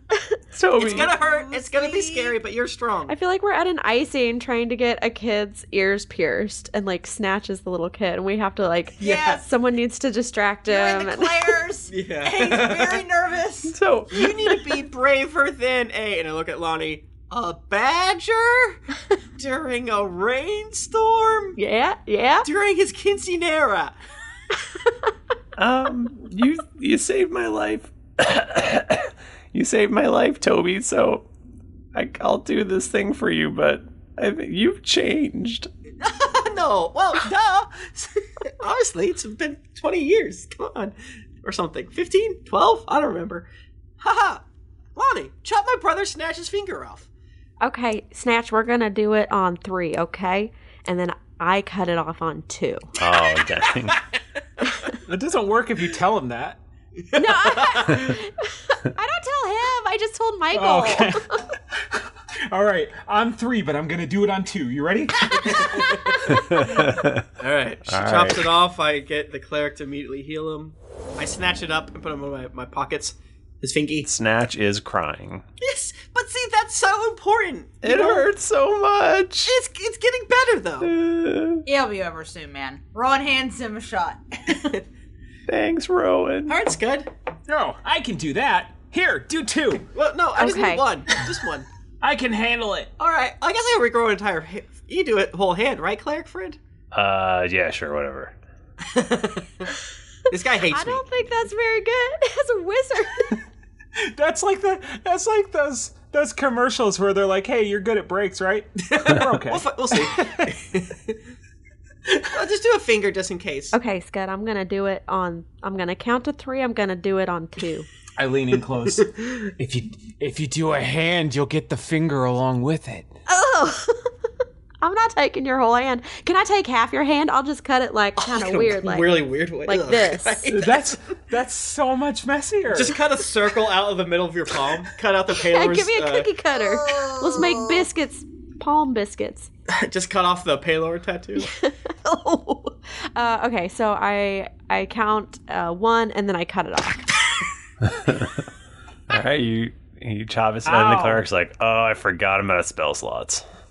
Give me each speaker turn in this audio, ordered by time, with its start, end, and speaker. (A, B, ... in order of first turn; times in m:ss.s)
0:00.5-0:01.1 A
0:00.8-0:03.2 B
0:00.8-0:02.4 C
0:03.1-0:11.6 D
0:09.0-0:09.4 C
0:10.7-0:14.3 C
0:11.9-0:13.0 B
0:13.7-0:14.3 A
0:14.1-0:18.8 B
0:19.4-0:21.6 B
0:21.6-0:22.5 D
0:22.4-0:24.0 B
0:25.6-0:31.3 A
0:31.9-0:35.7 A
0:36.2-0:43.5 B
0:44.0-0:44.4 B
0:45.0-0:47.1 B
0:47.6-0:52.9 D
0:53.0-0:54.0 A
0:55.1-0:56.6 E
0:57.1-0:58.1 B
0:57.2-1:01.3 D
1:00.5-1:01.4 E
1:01.9-1:05.9 E
1:05.4-1:06.2 B
1:06.3-1:07.2 A
1:07.4-1:14.1 B
1:07.8-1:08.5 A
1:14.1-1:15.4 A
1:15.6-1:18.3 B
1:17.8-1:19.6 A
1:19.5-1:20.9 B
1:20.8-1:21.6 A
1:21.7-1:24.7 C
1:25.5-1:26.6 A
1:26.5-1:27.1 B
1:27.5-1:29.9 E
1:29.9-1:31.7 B
1:30.4-1:30.8 D
1:32.0-1:32.9 E
1:33.0-1:36.6 B
1:36.9-1:38.4 A
1:38.9-1:39.7 B
1:40.3-1:41.0 B
1:40.7-1:43.4 D
1:44.1-1:50.2 E
1:48.8-1:51.2 B
1:52.3-1:53.8 B
1:53.7-1:57.9 D
1:58.2-2:03.1 E
2:03.3-2:04.1 D
2:04.8-2:10.5 D
2:08.2-2:11.0 B
2:10.5-2:13.0 E
2:12.7-2:16.3 B
2:15.5-2:19.5 D
2:16.5-2:17.8 C
2:19.7-2:21.5 B
2:21.4-2:27.1 D
2:28.0-2:28.3 A
2:29.1-2:33.4 A
2:30.6-2:31.2 E